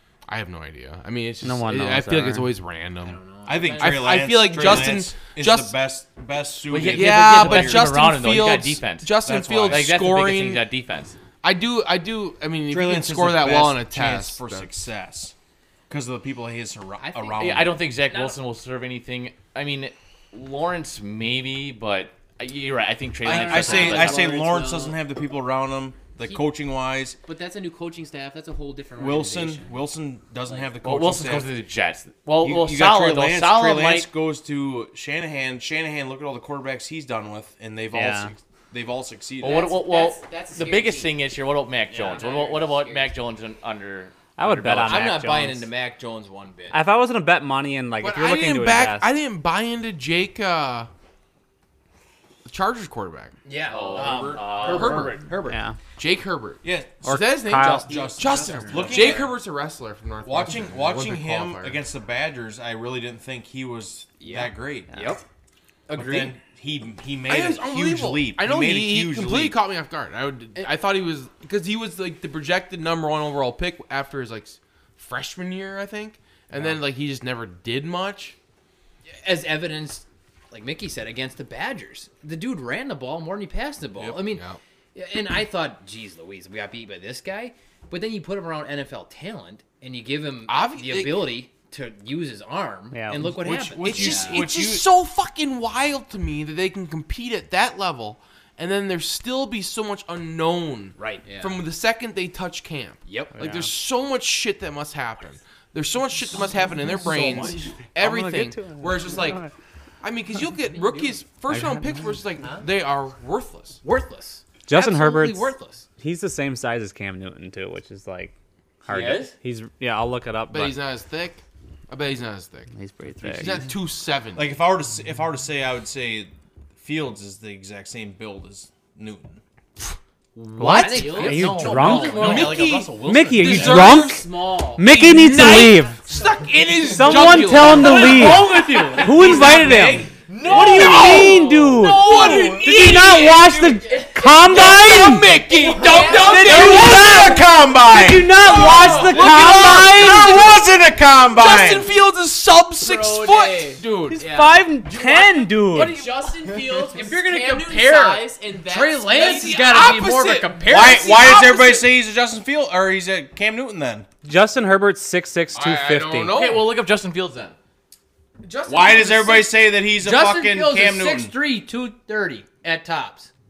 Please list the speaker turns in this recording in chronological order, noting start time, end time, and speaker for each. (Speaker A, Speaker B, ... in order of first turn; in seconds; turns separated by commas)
Speaker A: 0.3-3.2, Speaker B: 1.4-2.5, Speaker C: 3.0-4.9, Speaker D: 3.5-7.9, Speaker A: 3.8-5.8, Speaker E: 6.7-9.1, Speaker A: 6.9-10.7, Speaker D: 9.2-9.9, Speaker E: 9.7-11.2, Speaker A: 11.4-14.7, Speaker D: 12.7-15.3, Speaker D: 15.9-17.7, Speaker C: 17.0-17.7, Speaker E: 17.4-24.2, Speaker F: 18.1-18.4, Speaker D: 23.2-27.2, Speaker C: 23.2-25.0, Speaker C: 27.2-29.9, Speaker D: 29.0-31.5, Speaker C: 30.5-30.8, Speaker E: 30.8-34.1, Speaker D: 32.4-39.7, Speaker B: 37.9-38.3, Speaker E: 39.4-45.1, Speaker C: 39.4-41.2, Speaker C: 41.9-43.2, Speaker B: 44.4-45.7, Speaker F: 44.9-46.9, Speaker B: 46.7-49.1, Speaker A: 48.0-50.9, Speaker A: 52.5-53.3, Speaker F: 53.5-55.6, Speaker E: 53.7-55.3, Speaker D: 53.8-54.6, Speaker A: 54.5-55.3, Speaker B: 55.5-55.8, Speaker A: 56.0-61.9, Speaker D: 56.6-59.4, Speaker B: 57.0-58.1, Speaker C: 57.9-59.2, Speaker D: 60.2-64.9, Speaker F: 64.2-65.2, Speaker F: 65.9-66.3, Speaker D: 65.9-69.6, Speaker A: 67.3-78.4, Speaker F: 79.1-94.1, Speaker A: 84.0-84.6, Speaker A: 90.5-91.3, Speaker B: 92.9-93.4, Speaker D: 93.2-94.9, Speaker A: 93.8-109.4, Speaker C: 93.9-94.5, Speaker F: 101.0-101.3, Speaker C: 101.2-101.6, Speaker F: 103.1-103.4, Speaker B: 103.4-103.7, Speaker B: 107.1-109.5, Speaker A: 110.0-113.8, Speaker B: 111.5-112.2, Speaker F: 113.8-115.9, Speaker B: 114.7-120.8, Speaker E: 118.9-119.3, Speaker A: 120.5-124.5, Speaker B: 122.7-123.7, Speaker D: 124.4-129.4, Speaker A: 130.4-131.0, Speaker B: 130.6-136.1, Speaker F: 130.6-132.6, Speaker C: 130.6-132.0, Speaker E: 131.3-133.6, Speaker A: 131.8-134.3, Speaker C: 133.4-135.0, Speaker A: 134.8-147.3, Speaker B: 136.8-145.4, Speaker E: 137.7-139.4, Speaker C: 138.7-139.6, Speaker C: 140.3-141.5, Speaker C: 142.2-142.4, Speaker C: 143.8-147.4, Speaker D: 146.2-151.9, Speaker B: 147.9-150.5, Speaker A: 148.4-150.7, Speaker C: 148.4-149.3, Speaker A: 151.3-154.2, Speaker C: 152.8-159.6, Speaker B: 154.1-156.1, Speaker F: 156.9-161.9, Speaker A: 159.2-160.6, Speaker D: 160.6-164.1, Speaker B: 164.2-166.4, Speaker A: 165.5-166.7, Speaker E: 166.3-167.6, Speaker A: 168.4-169.5, Speaker D: 168.7-171.4, Speaker F: 169.9-173.3